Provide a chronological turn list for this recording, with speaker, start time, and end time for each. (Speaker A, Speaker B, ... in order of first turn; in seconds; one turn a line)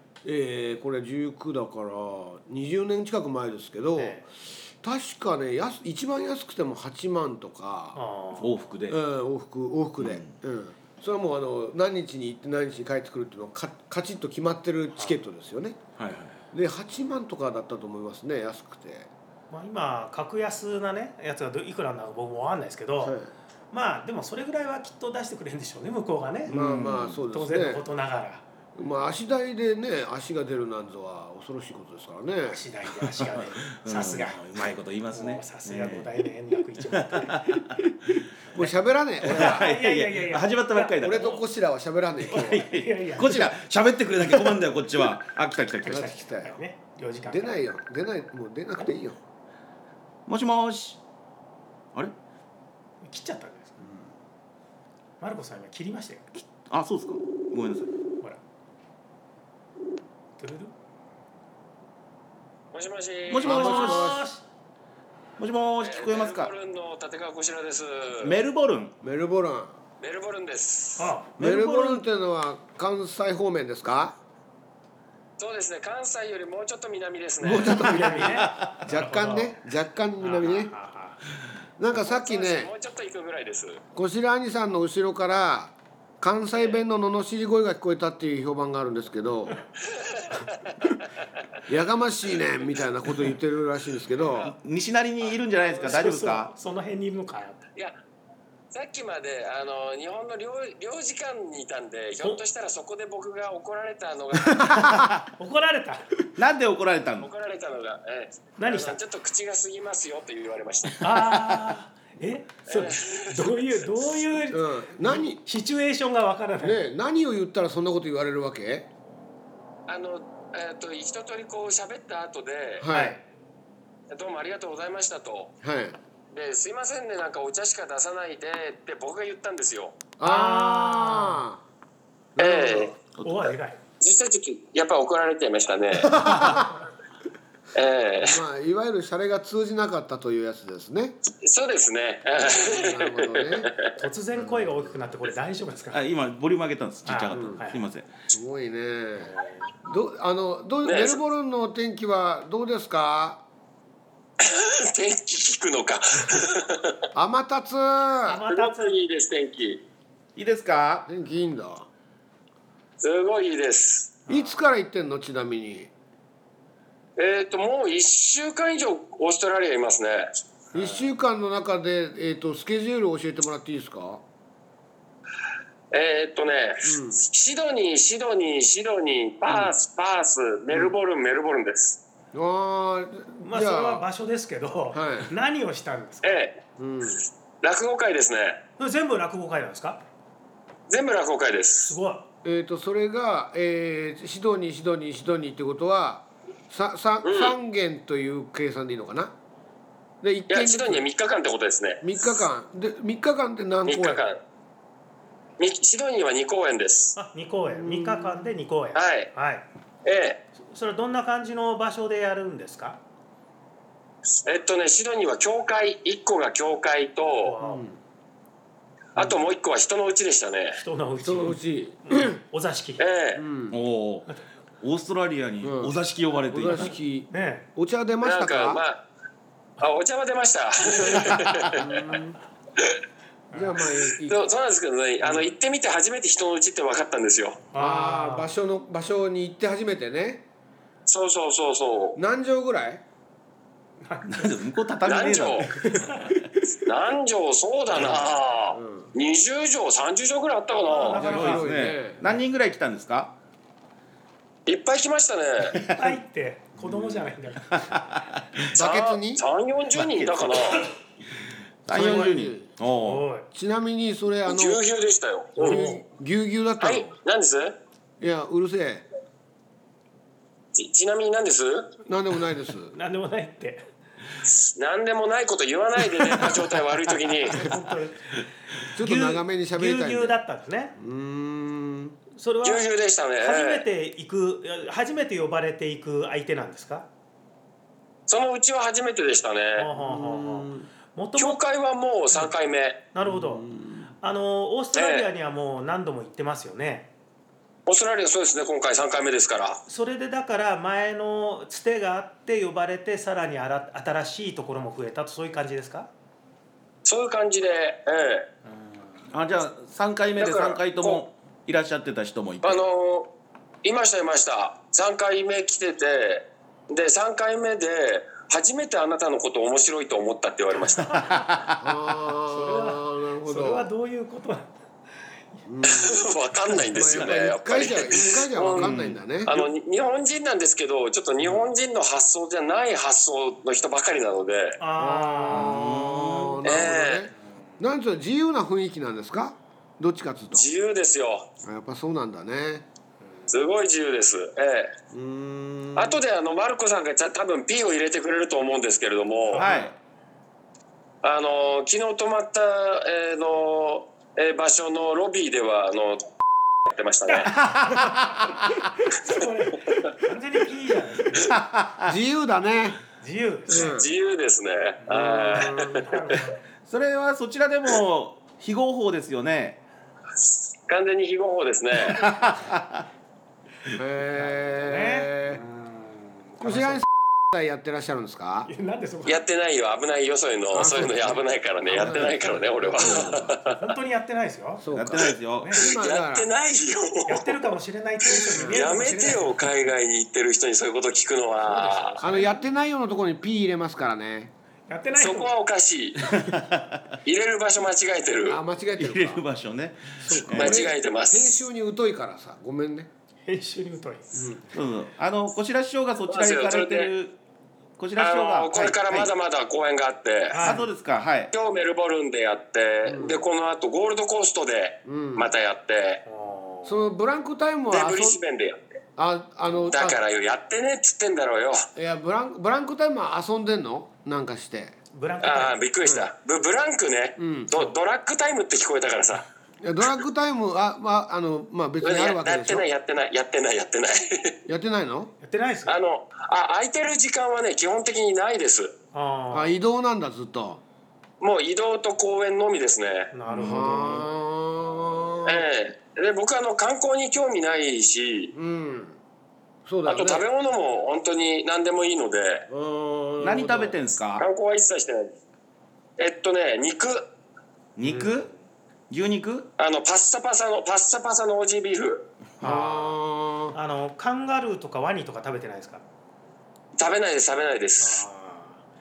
Speaker A: 0.2-8.0
Speaker B: 4.0-4.2
Speaker B: 8.0-8.6
Speaker C: 8.3-9.0
Speaker A: 8.9-15.8
Speaker C: 10.0-10.3
Speaker C: 16.0-16.4
Speaker A: 16.5-19.1
Speaker B: 19.5-23.2
Speaker A: 23.0-23.3
Speaker B: 23.7-26.6
Speaker C: 26.5-27.2
Speaker A: 26.5-27.8
Speaker B: 27.3-28.4
Speaker A: 28.8-32.6
Speaker B: 32.5-37.7
Speaker C: 33.0-36.2
Speaker C: 36.8-38.3
Speaker A: 38.5-39.7
Speaker C: 39.2-41.4
Speaker B: 39.3-41.0
Speaker A: 41.0-42.7
Speaker B: 42.2-43.5
Speaker C: 42.3-46.1
Speaker B: 45.8-47.6
Speaker A: 45.9-46.6
Speaker A: 47.3-49.2
Speaker C: 50.3-51.0
Speaker B: 53.0-53.9
Speaker A: 53.8-54.1
Speaker B: 55.2-56.2
Speaker C: 56.3-57.9
Speaker B: 60.4-60.7
Speaker D: 62.7-63.7
Speaker C: 63.3-64.2
Speaker A: 63.4-64.2
Speaker B: 63.5-64.5
Speaker C: 65.4-66.5
Speaker D: 65.8-68.3
Speaker C: 68.2-68.9
Speaker A: 69.0-69.8
Speaker D: 70.0-71.1
Speaker B: 71.0-71.3
Speaker C: 71.4-72.0
Speaker A: 71.4-74.2
Speaker D: 75.4-77.8
Speaker A: 77.4-80.7
Speaker B: 77.7-79.6
Speaker C: 78.0-78.8
Speaker B: 80.2-81.2
Speaker A: 81.8-82.7
Speaker D: 81.9-83.8
Speaker A: 84.0-89.6
Speaker D: 89.8-90.5
Speaker A: 91.7-94.5
Speaker C: 94.3-96.5
Speaker D: 95.7-95.9
Speaker B: 95.8-97.6
Speaker D: 98.7-104.7
Speaker C: 104.6-105.2
Speaker A: 104.6-105.1
Speaker B: 105.4-106.1
Speaker C: 106.4-107.3
Speaker D: 107.2-111.0
Speaker B: 108.6-109.0
Speaker B: 111.0-116.8
Speaker D: 112.7-113.8
Speaker A: 114.5-115.4
Speaker A: 116.6-118.9
Speaker D: 119.9-122.9
Speaker A: 122.8-123.2
Speaker B: 122.9-123.2
Speaker D: 124.1-125.5
Speaker A: 125.6-126.0
Speaker D: 126.3-130.0
Speaker A: 130.2-131.6
Speaker B: 130.2-131.4
Speaker A: 132.4-132.9
Speaker D: 132.4-132.9
Speaker C: 133.2-133.5
Speaker B: 133.2-133.8
Speaker D: 134.0-136.2
Speaker A: 136.1-136.7
Speaker C: 136.2-136.6
Speaker D: 137.7-138.4
Speaker A: 138.2-141.2
Speaker D: 141.4-143.9
Speaker A: 142.3-143.7
Speaker B: 144.0-146.0
Speaker A: 144.3-145.1
Speaker C: 145.9-148.1
Speaker B: 147.1-147.8
Speaker A: 147.3-147.6
Speaker A: 148.3-153.4
Speaker B: 149.2-149.7
Speaker D: 150.8-151.2
Speaker D: 154.4-157.0
Speaker A: 157.2-158.4
Speaker B: 158.3-159.0
Speaker D: 158.5-159.8
Speaker C: 160.4-161.1
Speaker A: 161.1-161.9
Speaker D: 163.0-164.2
Speaker B: 164.3-164.6
Speaker A: 164.3-165.9
Speaker D: 167.2-170.3
Speaker A: 170.7-174.2
Speaker B: 170.7-171.1
Speaker D: 175.9-182.0
Speaker A: 176.8-177.2
Speaker A: 182.3-184.1
Speaker B: 183.4-186.4
Speaker A: 184.9-185.3
Speaker D: 186.2-186.6
Speaker A: 186.8-187.2
Speaker D: 187.6-188.6
Speaker B: 188.8-190.0
Speaker D: 190.9-191.9
Speaker B: 191.9-192.3
Speaker A: 192.4-199.3
Speaker D: 197.2-197.6
Speaker A: 200.2-201.1
Speaker D: 200.5-202.0
Speaker A: 202.0-204.2
Speaker D: 203.9-204.4
Speaker D: 205.6-207.2
Speaker B: 207.2-209.7
Speaker A: 207.7-208.6
Speaker D: 208.9-209.3
Speaker D: 210.1-210.4
Speaker B: 210.6-213.0
Speaker D: 214.4-217.6
Speaker B: 217.4-217.8
Speaker A: 217.6-218.0
Speaker D: 219.2-220.8
Speaker B: 220.8-223.0
Speaker A: 221.2-222.4
Speaker D: 223.0-223.4
Speaker A: 223.4-223.8
Speaker C: 223.7-224.3
Speaker C: 224.8-226.9
Speaker A: 225.6-225.9
Speaker A: 226.5-228.8
Speaker B: 227.3-227.7
Speaker D: 228.2-229.0
Speaker D: 229.8-231.8
Speaker A: 230.9-232.4
Speaker B: 233.5-233.8
Speaker A: 233.5-234.6
Speaker D: 234.3-237.6
Speaker B: 237.7-238.5
Speaker A: 237.8-240.4
Speaker D: 241.1-242.2
Speaker A: 242.2-243.0
Speaker B: 244.1-244.6
Speaker C: 244.3-246.4
Speaker D: 245.1-245.7
Speaker B: 245.9-246.3
Speaker D: 246.8-251.2
Speaker A: 248.7-249.1
Speaker B: 250.9-251.7
Speaker A: 251.0-252.2
Speaker C: 251.2-253.3
Speaker D: 254.7-255.8
Speaker C: 255.8-256.1
Speaker B: 255.8-257.9
Speaker A: 256.8-257.2
Speaker C: 257.7-258.6
Speaker A: 258.7-259.4
Speaker D: 258.7-260.9
Speaker C: 260.0-260.8
Speaker C: 261.9-263.3
Speaker A: 261.9-262.7
Speaker B: 263.0-263.5
Speaker A: 263.5-264.8
Speaker D: 264.4-265.9
Speaker A: 265.6-267.1
Speaker B: 265.6-266.0
Speaker D: 266.8-267.8
Speaker A: 268.2-269.1
Speaker D: 270.8-271.9
Speaker A: 272.1-272.9
Speaker B: 272.9-273.9
Speaker D: 274.5-277.7
Speaker B: 277.4-281.0
Speaker A: 278.9-280.4
Speaker A: 281.0-282.2
Speaker B: 282.4-282.9
Speaker D: 282.6-283.8
Speaker B: 283.4-287.1
Speaker D: 288.3-289.9
Speaker B: 289.8-291.6
Speaker A: 289.9-290.9
Speaker D: 291.4-293.0
Speaker B: 293.1-293.7
Speaker A: 293.2-294.1
Speaker B: 294.2-297.1
Speaker D: 294.9-295.3
Speaker D: 297.9-299.8
Speaker B: 299.9-306.1
Speaker D: 307.1-308.5
Speaker B: 308.7-309.2
Speaker C: 309.3-312.8
Speaker D: 310.4-311.2
Speaker D: 312.6-313.3
Speaker D: 313.8-321.2
Speaker C: 321.1-321.8
Speaker A: 321.8-323.9
Speaker B: 322.5-324.8
Speaker A: 325.7-329.6
Speaker D: 325.9-334.8
Speaker C: 328.8-329.6
Speaker B: 334.8-335.8
Speaker A: 335.0-340.7
Speaker C: 335.5-336.6
Speaker D: 336.6-337.3
Speaker D: 340.5-341.5
Speaker A: 341.6-342.9
Speaker D: 343.5-344.9
Speaker A: 345.1-346.2
Speaker D: 345.9-349.7
Speaker B: 349.5-349.9
Speaker C: 349.6-349.9
Speaker D: 351.2-356.3
Speaker D: 356.9-357.6
Speaker B: 357.3-358.0
Speaker C: 357.5-358.6
Speaker B: 359.1-361.5
Speaker C: 361.4-362.1
Speaker A: 362.1-363.0
Speaker B: 363.2-364.0
Speaker A: 363.7-364.1
Speaker D: 363.7-366.4
Speaker B: 365.0-366.6
Speaker A: 365.1-366.2
Speaker C: 366.9-369.8
Speaker D: 370.9-372.2
Speaker C: 372.0-373.1
Speaker A: 373.9-375.6
Speaker B: 374.4-377.0
Speaker A: 376.6-378.7
Speaker B: 378.7-379.4
Speaker D: 379.3-383.8
Speaker A: 380.7-383.6
Speaker B: 382.2-382.5
Speaker B: 383.7-384.9
Speaker A: 384.8-386.5
Speaker C: 384.9-385.8
Speaker D: 385.2-387.7
Speaker B: 385.6-385.9
Speaker B: 387.3-389.6
Speaker D: 388.3-392.1
Speaker A: 388.6-388.9
Speaker B: 391.6-392.6
Speaker A: 392.2-394.5
Speaker B: 394.9-395.5
Speaker D: 395.2-396.2
Speaker C: 396.2-397.1
Speaker D: 397.2-398.6
Speaker A: 398.4-399.4
Speaker C: 399.0-400.9
Speaker A: 400.2-403.1
Speaker D: 400.5-401.6
Speaker B: 403.5-404.6
Speaker A: 404.3-404.7
Speaker C: 404.7-407.4
Speaker D: 406.3-407.1
Speaker C: 408.0-409.3
Speaker D: 408.2-410.7
Speaker B: 410.5-410.9
Speaker C: 410.6-411.5
Speaker D: 411.5-416.2
Speaker A: 413.1-413.4
Speaker A: 415.1-415.5
Speaker B: 416.3-417.1
Speaker A: 416.9-418.4
Speaker D: 417.9-418.8
Speaker A: 419.2-420.2
Speaker D: 419.9-421.9
Speaker A: 422.0-425.0
Speaker B: 425.1-425.8
Speaker D: 425.4-429.4
Speaker A: 426.0-426.3
Speaker A: 427.4-427.7
Speaker A: 429.8-432.9
Speaker D: 432.0-434.6
Speaker A: 434.7-435.3
Speaker B: 435.4-436.0
Speaker D: 435.9-438.9
Speaker B: 439.1-439.8
Speaker A: 439.5-440.8
Speaker D: 441.4-443.3
Speaker B: 443.3-444.3
Speaker A: 443.5-445.7
Speaker D: 445.4-448.5
Speaker A: 448.5-449.2
Speaker A: 449.9-450.5
Speaker D: 450.1-452.7
Speaker A: 452.7-454.0
Speaker C: 453.4-454.5
Speaker D: 454.4-455.3
Speaker D: 456.2-457.3
Speaker C: 458.0-458.5
Speaker B: 458.0-458.6
Speaker C: 459.1-459.7
Speaker D: 459.8-462.3
Speaker B: 462.6-463.2
Speaker A: 462.6-463.8
Speaker B: 463.7-466.0
Speaker D: 467.0-468.2
Speaker B: 468.0-468.8